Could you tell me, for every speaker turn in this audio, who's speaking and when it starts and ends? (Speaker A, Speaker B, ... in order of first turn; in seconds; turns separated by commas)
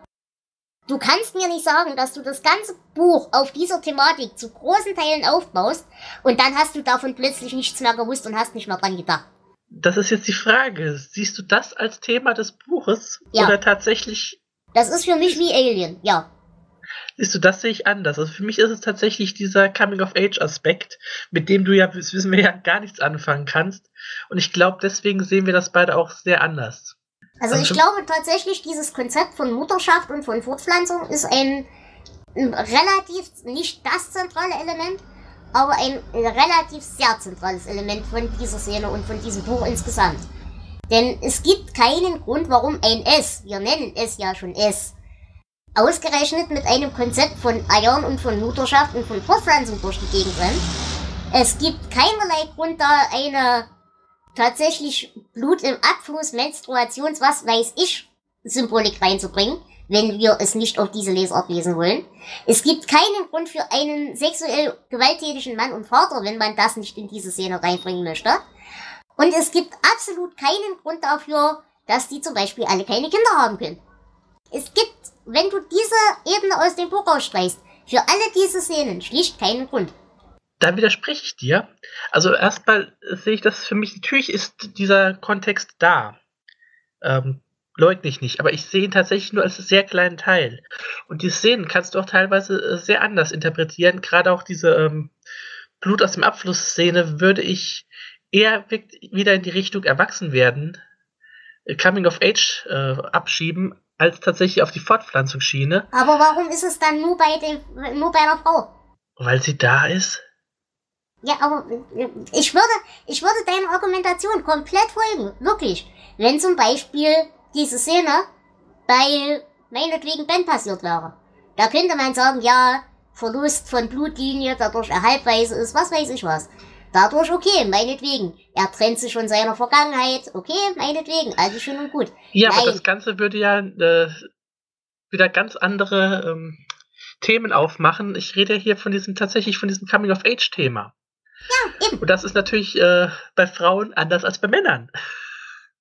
Speaker A: 0.9-9.2, Speaker B: 9.7-14.4, Speaker A: 14.7-16.3, Speaker B: 17.2-26.9, Speaker A: 27.4-31.7, Speaker B: 27.5-27.8, Speaker A: 32.4-35.0, Speaker A: 35.5-40.2, Speaker A: 40.9-44.9, Speaker A: 45.8-50.7, Speaker A: 51.3-53.7, Speaker A: 54.3-68.4, Speaker A: 69.2-73.8, Speaker A: 74.5-79.9, Speaker B: 80.6-86.2, Speaker B: 87.0-95.1, Speaker B: 95.8-100.8, Speaker B: 101.7-105.9, Speaker A: 105.9-108.7, Speaker B: 109.2-110.2, Speaker A: 111.2-118.2, Speaker A: 118.9-132.8, Speaker B: 132.3-134.2, Speaker B: 135.1-136.6, Speaker B: 137.2-140.9, Speaker A: 141.5-142.0, Speaker B: 142.0-144.9